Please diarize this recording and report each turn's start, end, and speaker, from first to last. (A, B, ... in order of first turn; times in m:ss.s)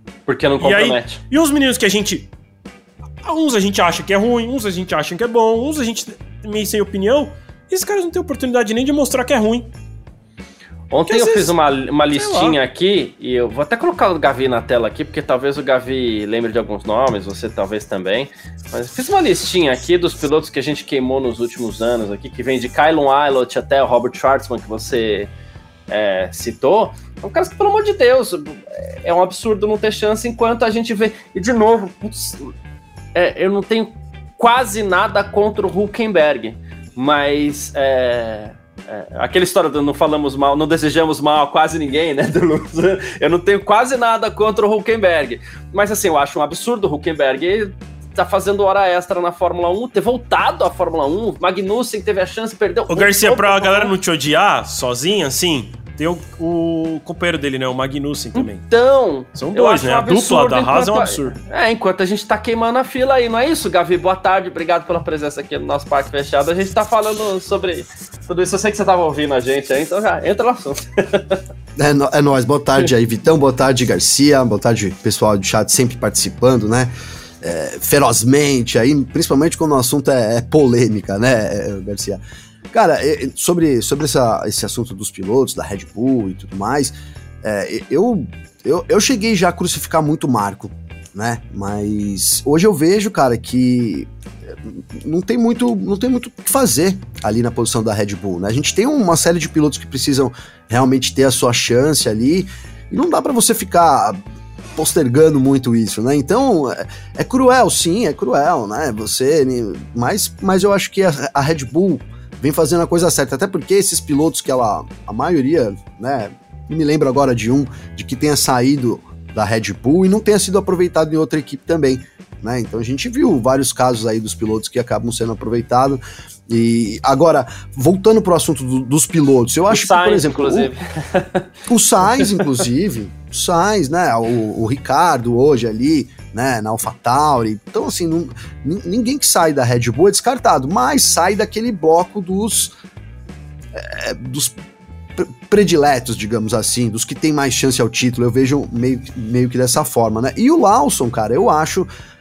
0:00.3-0:01.2 A
0:00.6-0:02.3 B
0:03.2-0:09.7 B
0:10.9-0:25.3 A
0:11.1-0:11.5 B
0:12.1-0:12.6 B
0:25.9-0:32.5 A
0:33.1-0:53.9 A
0:52.9-0:58.6 B
0:58.3-1:11.4 A
0:59.3-1:01.4 B
1:11.8-1:22.2 C
1:22.7-1:34.1 C
1:34.6-1:44.2 C
1:44.8-2:10.7 C
2:09.7-2:11.5 A
2:11.7-2:22.7 C
2:23.7-2:24.6 C
2:25.2-2:31.9 C